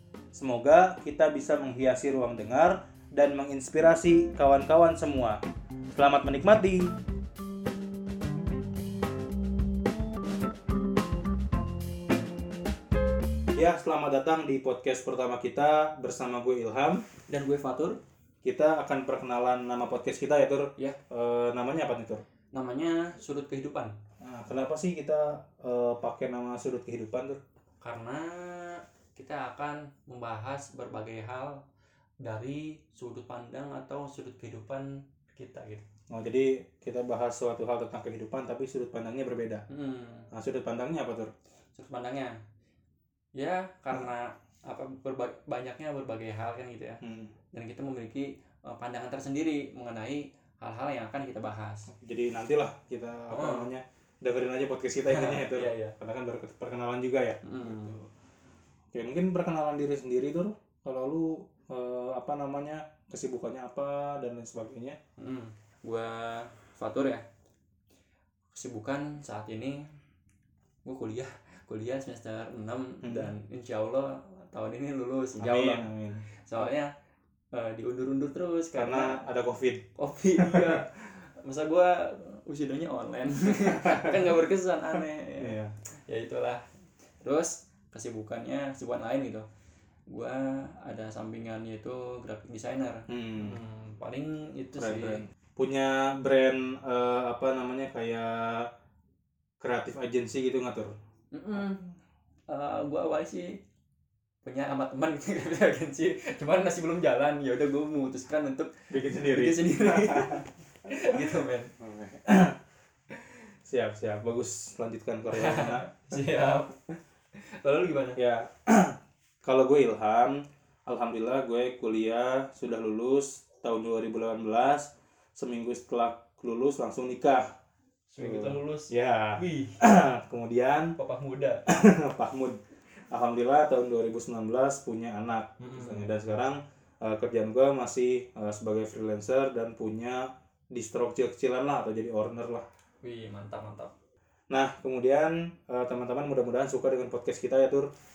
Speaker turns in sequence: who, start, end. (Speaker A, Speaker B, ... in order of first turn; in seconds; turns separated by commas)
Speaker A: 0.3-5.4, Speaker A: 6.0-6.9, Speaker A: 13.6-17.1, Speaker B: 17.3-18.0, Speaker A: 18.4-22.2, Speaker B: 22.5-24.0, Speaker A: 24.2-27.4, Speaker B: 27.8-31.6, Speaker B: 32.2-35.8, Speaker A: 36.1-39.6, Speaker B: 39.7-40.3, Speaker A: 40.3-41.3, Speaker B: 41.8-42.4, Speaker B: 43.4-47.0, Speaker A: 47.0-47.3, Speaker B: 47.5-51.9, Speaker A: 51.9-58.1, Speaker B: 53.3-53.7, Speaker B: 55.1-56.0, Speaker B: 57.4-58.0, Speaker A: 58.9-65.0, Speaker B: 65.2-67.2, Speaker B: 68.5-69.9, Speaker B: 70.8-75.9, Speaker A: 73.0-73.3, Speaker A: 75.4-76.3, Speaker B: 76.5-76.9, Speaker B: 77.5-79.2, Speaker A: 78.8-80.8, Speaker B: 80.0-85.6, Speaker A: 85.4-85.7, Speaker B: 86.1-86.6, Speaker B: 87.2-89.5, Speaker B: 90.1-95.2, Speaker A: 93.1-93.6, Speaker A: 94.8-98.7, Speaker A: 99.6-101.0, Speaker B: 101.3-101.8, Speaker B: 102.5-103.6, Speaker B: 104.5-111.7, Speaker A: 108.9-112.6, Speaker A: 113.7-116.0, Speaker B: 115.3-116.8, Speaker B: 117.4-118.2, Speaker A: 118.2-127.5, Speaker B: 128.1-129.8, Speaker A: 128.2-131.0, Speaker B: 131.0-131.7, Speaker A: 131.7-142.7, Speaker B: 135.6-136.1, Speaker B: 143.0-143.9, Speaker A: 144.5-147.9